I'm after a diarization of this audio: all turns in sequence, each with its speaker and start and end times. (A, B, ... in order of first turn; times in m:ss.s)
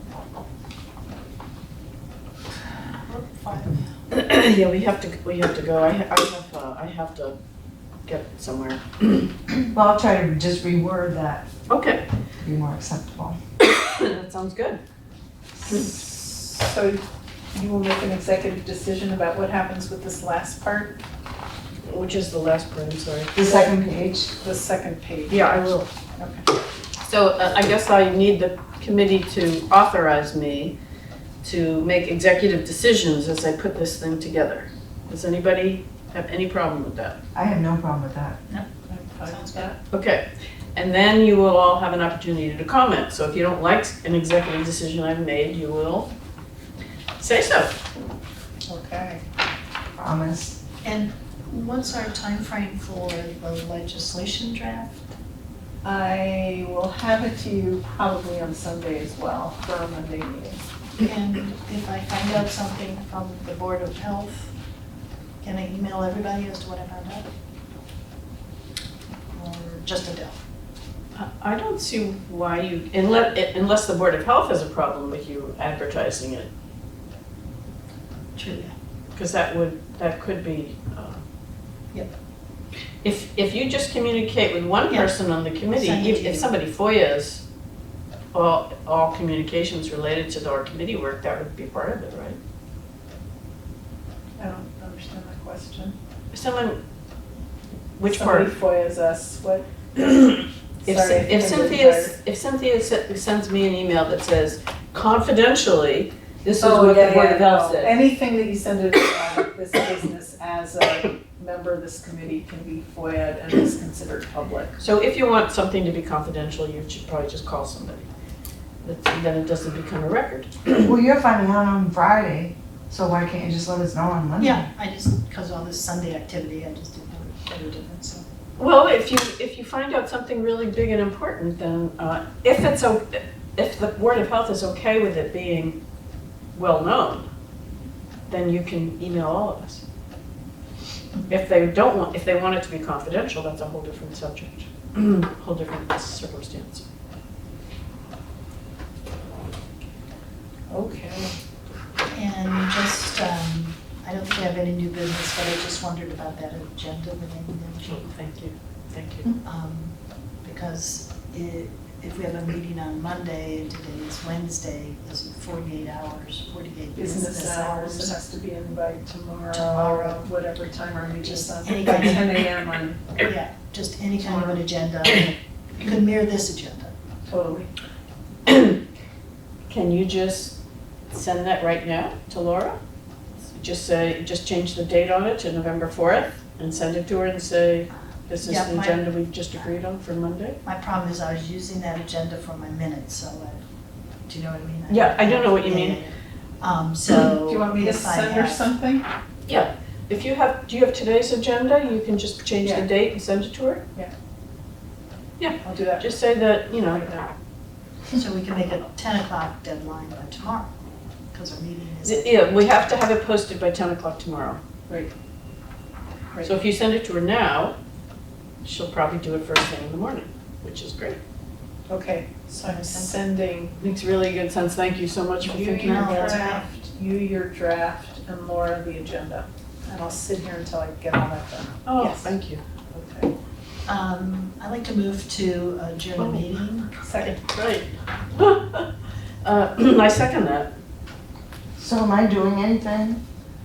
0:03.0-0:03.9 A
0:04.1-0:07.4 B
0:08.0-0:09.2 B
0:09.6-0:11.5 C
0:11.7-0:12.0 B
0:12.4-0:13.4 C
0:13.6-0:14.8 B
0:15.7-0:21.0 D
0:21.8-0:23.3 B
0:23.4-0:24.3 C
0:23.4-0:23.7 D
0:24.4-0:26.4 D
0:25.3-0:25.9 B
0:27.0-0:30.7 B
0:31.4-0:37.2 B
0:37.3-0:38.4 C
0:38.9-0:39.8 D
0:39.2-0:39.7 A
0:39.9-0:46.1 B
0:47.2-0:47.8 B
0:48.7-0:49.2 D
0:50.0-0:50.6 C
0:50.8-0:55.1 A
0:55.8-1:00.6 D
1:01.0-1:04.5 A
1:05.4-1:07.2 A
1:09.3-1:10.4 A
1:11.1-1:16.5 B
1:18.4-1:18.7 A
1:19.2-1:21.2 B
1:23.0-1:27.4 B
1:25.6-1:26.5 A
1:28.3-1:32.4 B
1:34.4-1:36.0 D
1:36.3-1:36.8 B
1:38.0-1:38.5 B
1:38.1-1:39.7 D
1:40.0-1:47.9 B
1:40.8-1:42.1 D
1:46.6-1:54.8 D
1:54.8-1:58.1 B
1:58.8-2:00.6 B
2:00.7-2:04.6 C
2:04.4-2:08.2 A
2:08.6-2:15.8 B
2:16.6-2:17.3 B
2:18.3-2:19.8 B
2:21.3-2:26.8 B
2:30.7-2:31.4 D
2:32.1-2:38.0 A
2:37.8-2:39.3 B
2:39.4-2:48.2 A
2:47.0-2:53.1 D
2:49.5-2:50.2 A
2:51.2-2:52.4 A
2:53.2-2:56.9 A
2:54.2-2:54.6 D
2:57.3-2:57.7 D
2:58.5-2:58.8 B
2:59.7-3:00.6 B
3:01.1-3:02.8 B
3:03.5-3:10.6 B
3:08.4-3:09.1 A
3:10.6-3:13.6 A
3:14.3-3:18.7 A
3:14.9-3:16.0 B
3:17.4-3:19.0 D
3:19.5-3:23.8 B
3:22.6-3:22.9 D
3:25.4-3:27.1 B
3:25.6-3:26.1 D
3:28.1-3:30.7 A
3:31.3-3:33.0 A
3:32.0-3:34.6 B
3:36.4-3:37.8 B
3:38.6-3:41.2 B
3:41.9-3:43.8 D
3:42.6-3:43.2 A
3:43.8-3:46.4 B
3:45.4-3:52.4 D
3:45.7-3:46.7 A
3:51.8-3:52.6 B
3:52.9-3:53.3 D
3:53.9-3:57.4 A
3:56.2-3:56.4 B
3:57.0-3:57.4 D
3:57.4-3:58.9 B
3:59.4-4:00.7 B
4:01.8-4:03.2 C